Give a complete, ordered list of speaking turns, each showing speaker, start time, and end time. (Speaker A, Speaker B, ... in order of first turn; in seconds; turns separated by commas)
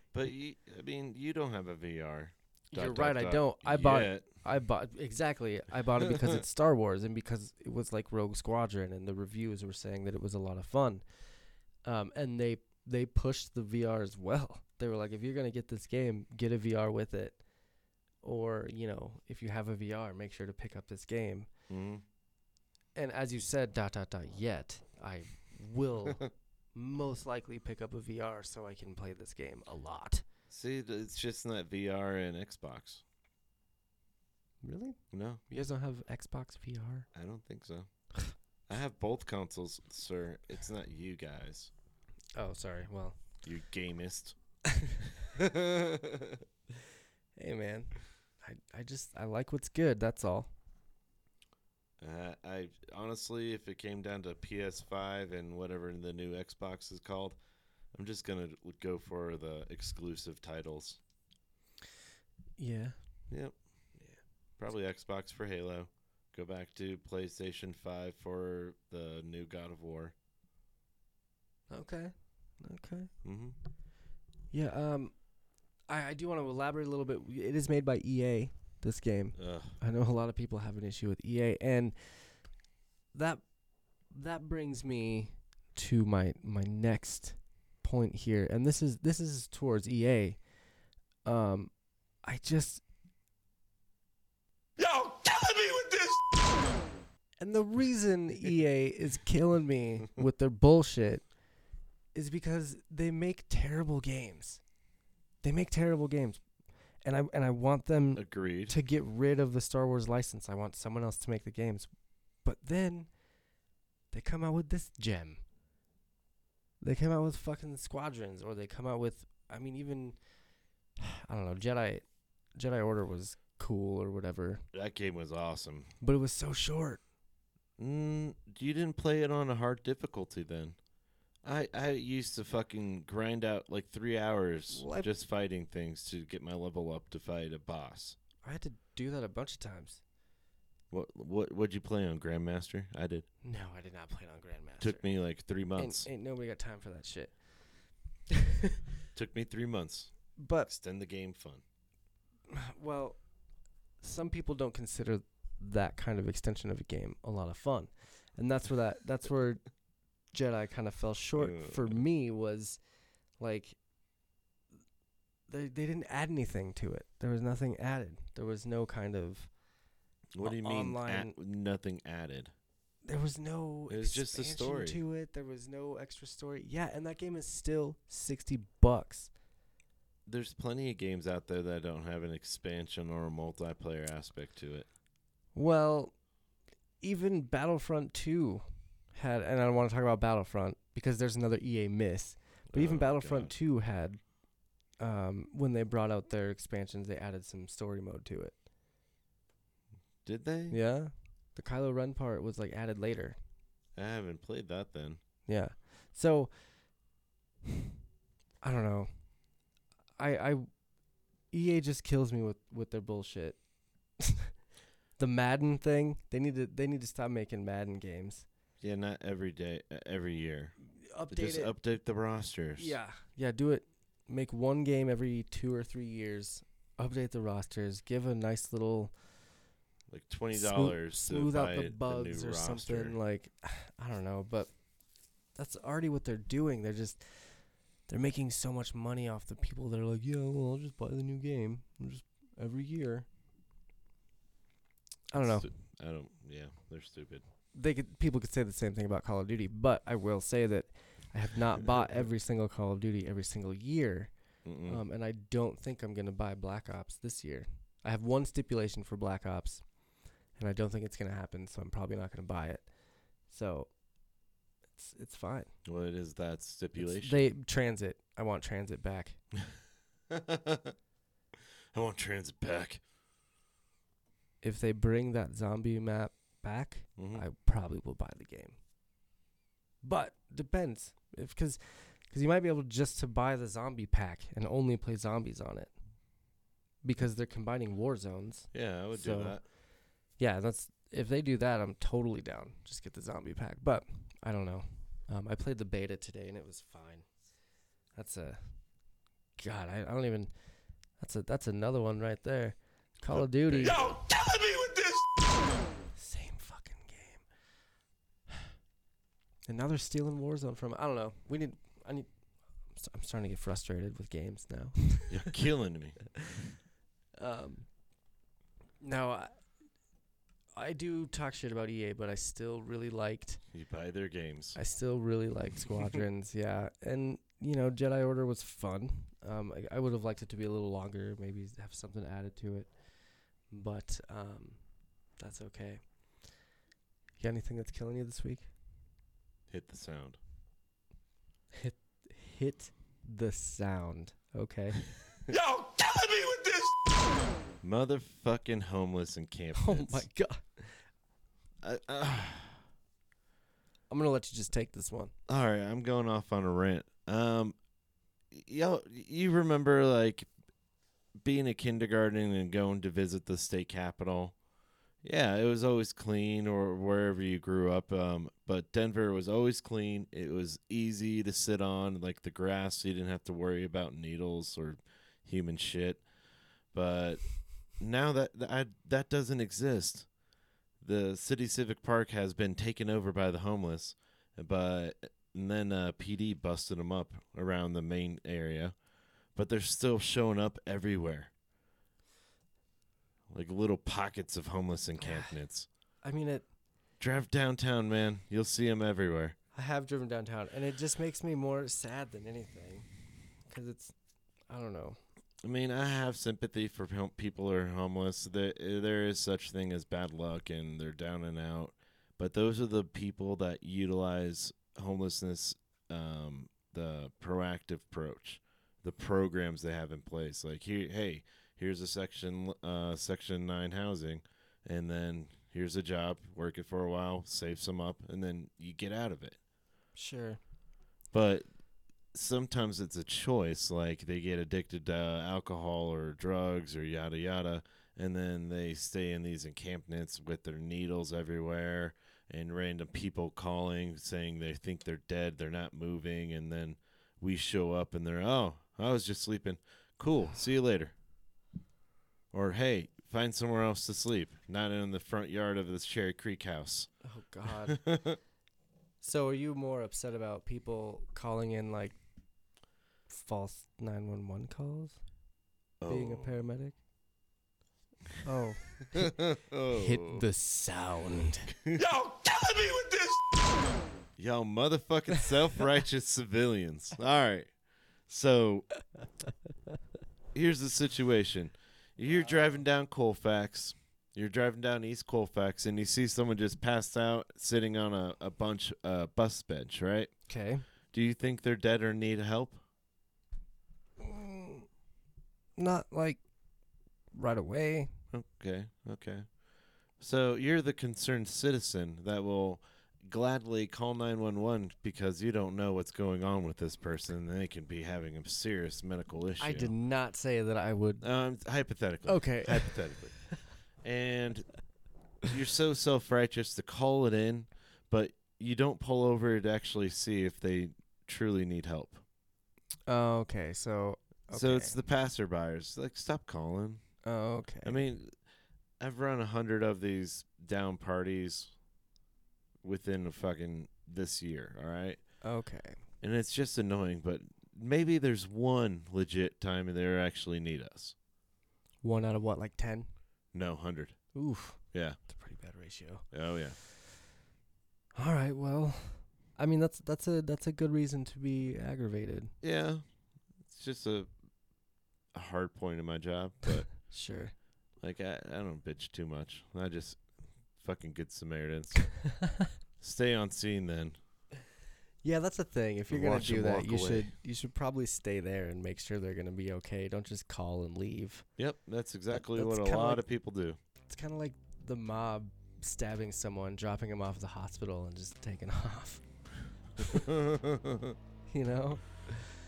Speaker A: 0.1-4.3, Speaker B: 2.7-11.0, Speaker A: 6.0-6.4, Speaker B: 11.8-17.4, Speaker B: 18.2-21.5, Speaker A: 21.7-22.0, Speaker B: 22.9-30.2, Speaker A: 30.5-33.0, Speaker B: 34.6-37.1, Speaker A: 35.1-35.4, Speaker A: 37.1-37.9, Speaker A: 38.7-41.7, Speaker B: 42.3-43.2, Speaker A: 43.4-44.4, Speaker B: 44.7-45.1, Speaker A: 45.3-46.4, Speaker B: 47.4-50.5, Speaker A: 52.0-57.4, Speaker A: 57.9-61.0, Speaker B: 62.6-63.0, Speaker A: 63.3-63.5, Speaker A: 64.6-70.1, Speaker B: 71.7-73.1, Speaker A: 73.2-73.5, Speaker B: 74.5-75.1, Speaker B: 75.9-82.3, Speaker A: 79.3-79.8, Speaker B: 83.1-83.4, Speaker B: 84.1-90.4, Speaker B: 91.2-91.7, Speaker B: 92.2-92.8, Speaker B: 94.8-96.3, Speaker B: 97.4-101.2, Speaker B: 102.1-104.6, Speaker B: 105.4-106.4, Speaker B: 107.0-111.9, Speaker A: 108.2-108.8, Speaker B: 112.4-113.1, Speaker B: 114.1-115.4, Speaker B: 116.8-120.2, Speaker B: 121.0-124.6, Speaker A: 124.7-125.9, Speaker B: 126.0-127.0, Speaker A: 127.8-130.8, Speaker A: 131.4-138.2, Speaker B: 134.7-135.1, Speaker B: 138.4-140.0, Speaker A: 140.9-143.2, Speaker B: 143.4-145.1, Speaker A: 144.8-146.1, Speaker B: 145.8-147.3, Speaker A: 149.1-151.6, Speaker B: 150.3-150.7, Speaker B: 152.5-153.2, Speaker B: 154.0-159.6, Speaker B: 160.3-162.8, Speaker A: 161.4-162.0, Speaker B: 163.4-163.8, Speaker B: 165.5-169.5, Speaker A: 170.3-172.5, Speaker B: 170.4-171.3, Speaker B: 173.0-179.3, Speaker A: 173.9-175.0, Speaker A: 180.2-184.9, Speaker B: 185.5-186.1, Speaker B: 187.0-194.2, Speaker A: 192.7-193.5, Speaker B: 195.0-198.6, Speaker A: 200.2-200.8, Speaker B: 200.7-203.4, Speaker A: 203.9-205.2, Speaker B: 205.4-206.5, Speaker B: 208.6-209.1, Speaker B: 210.2-210.7, Speaker B: 211.5-213.6, Speaker B: 214.2-214.5, Speaker B: 215.2-218.4, Speaker A: 218.8-220.7, Speaker B: 220.9-221.7, Speaker A: 221.3-223.0, Speaker B: 222.8-229.1, Speaker A: 230.1-233.2, Speaker B: 230.5-234.7, Speaker B: 235.5-243.2, Speaker B: 245.3-245.7, Speaker A: 245.4-247.4, Speaker B: 247.7-254.3, Speaker A: 254.6-255.0, Speaker B: 254.8-259.8, Speaker B: 260.6-262.9, Speaker B: 263.5-263.9, Speaker B: 264.9-265.7, Speaker A: 265.9-267.5, Speaker B: 267.0-269.4, Speaker A: 270.3-270.9, Speaker A: 271.9-273.0, Speaker B: 274.6-278.8, Speaker A: 277.2-277.4, Speaker B: 280.0-285.9, Speaker B: 287.0-289.6, Speaker A: 288.7-289.6, Speaker B: 290.4-297.3, Speaker B: 298.1-298.7, Speaker B: 299.6-300.5, Speaker B: 301.2-305.2, Speaker A: 303.3-304.2, Speaker B: 306.1-307.4, Speaker B: 309.7-312.3, Speaker B: 312.9-315.5, Speaker A: 315.3-316.2, Speaker B: 317.4-317.9, Speaker B: 319.0-319.6, Speaker B: 320.8-323.6, Speaker A: 323.7-324.8, Speaker B: 324.7-332.9, Speaker B: 333.7-334.8, Speaker B: 335.4-336.0, Speaker B: 337.4-338.7, Speaker A: 339.7-340.4, Speaker B: 341.7-347.0, Speaker A: 347.8-350.2, Speaker B: 349.7-351.0, Speaker A: 351.8-352.8, Speaker B: 354.1-355.3, Speaker A: 355.5-357.7, Speaker A: 358.5-360.5, Speaker A: 361.4-364.5, Speaker A: 365.2-376.2, Speaker A: 376.9-377.4, Speaker A: 378.0-380.3, Speaker A: 381.0-388.9, Speaker A: 389.5-391.5, Speaker A: 393.5-395.9, Speaker B: 395.2-395.5, Speaker B: 396.2-396.6, Speaker A: 397.2-399.6, Speaker B: 399.7-403.1, Speaker B: 403.7-404.1, Speaker B: 404.7-405.2, Speaker A: 405.6-429.6, Speaker B: 430.1-430.6, Speaker A: 431.3-431.6, Speaker A: 432.3-451.1, Speaker A: 452.5-457.1, Speaker B: 457.2-458.0, Speaker A: 457.7-458.4, Speaker B: 459.2-462.2, Speaker B: 463.3-465.2, Speaker A: 466.0-466.5, Speaker B: 466.1-467.0, Speaker B: 468.4-469.3, Speaker A: 469.1-470.4, Speaker B: 469.9-471.7, Speaker A: 471.8-472.2, Speaker A: 474.4-477.7, Speaker A: 478.3-478.9, Speaker A: 480.5-490.3, Speaker B: 490.5-490.8, Speaker A: 491.1-492.8, Speaker B: 494.2-494.9, Speaker B: 495.8-496.4, Speaker B: 497.3-498.1, Speaker A: 498.3-499.5, Speaker A: 500.2-509.9, Speaker B: 509.6-511.2, Speaker A: 511.2-513.5, Speaker B: 512.2-513.0, Speaker A: 514.0-514.7, Speaker A: 515.4-522.2, Speaker B: 523.1-525.0, Speaker A: 524.5-527.0, Speaker B: 527.2-528.0, Speaker A: 527.8-528.3, Speaker A: 529.0-531.7, Speaker A: 532.8-535.2, Speaker B: 535.4-536.0, Speaker A: 536.2-541.1, Speaker B: 542.0-543.1, Speaker A: 543.5-544.2, Speaker B: 544.3-546.2, Speaker A: 544.9-545.2, Speaker A: 546.3-546.8, Speaker B: 548.1-552.5, Speaker A: 552.6-553.0, Speaker A: 553.7-554.3, Speaker A: 555.3-556.9, Speaker B: 557.0-557.5, Speaker A: 558.0-560.2, Speaker A: 560.8-562.2, Speaker A: 563.0-564.2, Speaker B: 565.2-571.5, Speaker A: 566.1-567.3, Speaker A: 571.6-573.8, Speaker B: 572.3-573.2, Speaker B: 574.1-579.2, Speaker A: 580.0-581.2, Speaker B: 581.5-582.5